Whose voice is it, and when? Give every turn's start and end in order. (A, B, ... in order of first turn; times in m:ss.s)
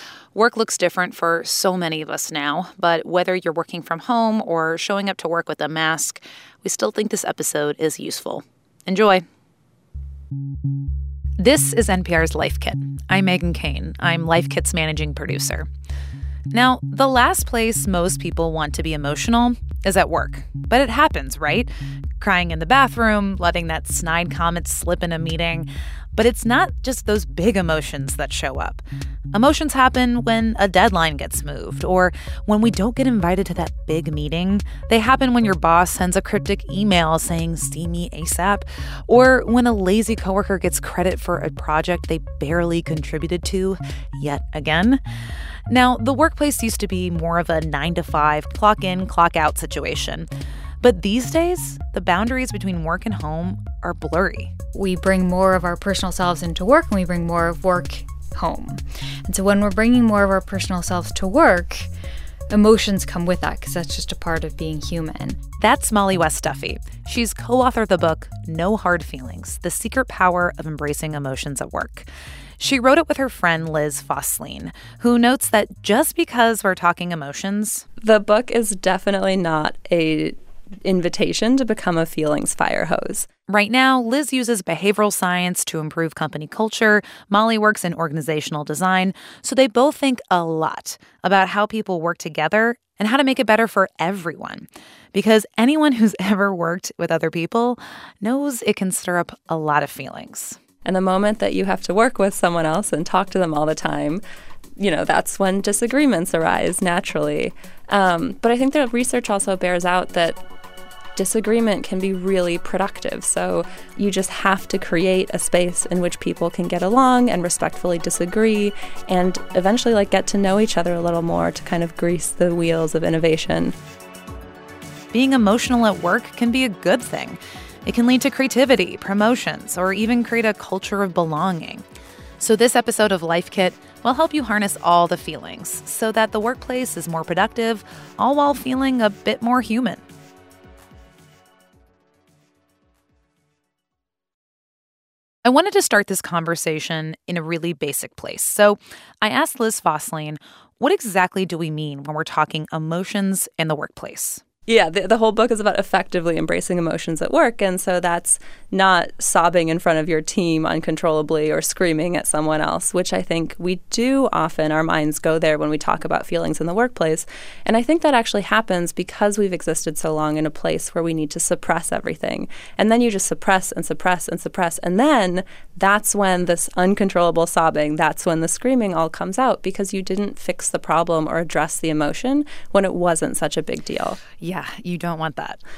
0:00.3-0:09.2 A
0:11.4-0:15.7 A
0:16.5-0:45.0 A
0:45.7-0:50.3 A
0:50.8-0:54.5 A
0:54.7-1:01.9 B
1:02.5-1:05.4 B
1:05.6-1:12.1 A
1:12.6-1:17.8 A
1:18.0-1:23.3 C
1:23.5-1:40.6 A
1:40.8-1:44.2 C
1:44.8-1:50.4 C
1:51.2-2:03.7 C
2:05.1-2:11.8 A
2:12.4-2:20.0 A
2:25.4-2:34.4 A
2:34.7-3:04.2 C
3:04.4-3:05.6 A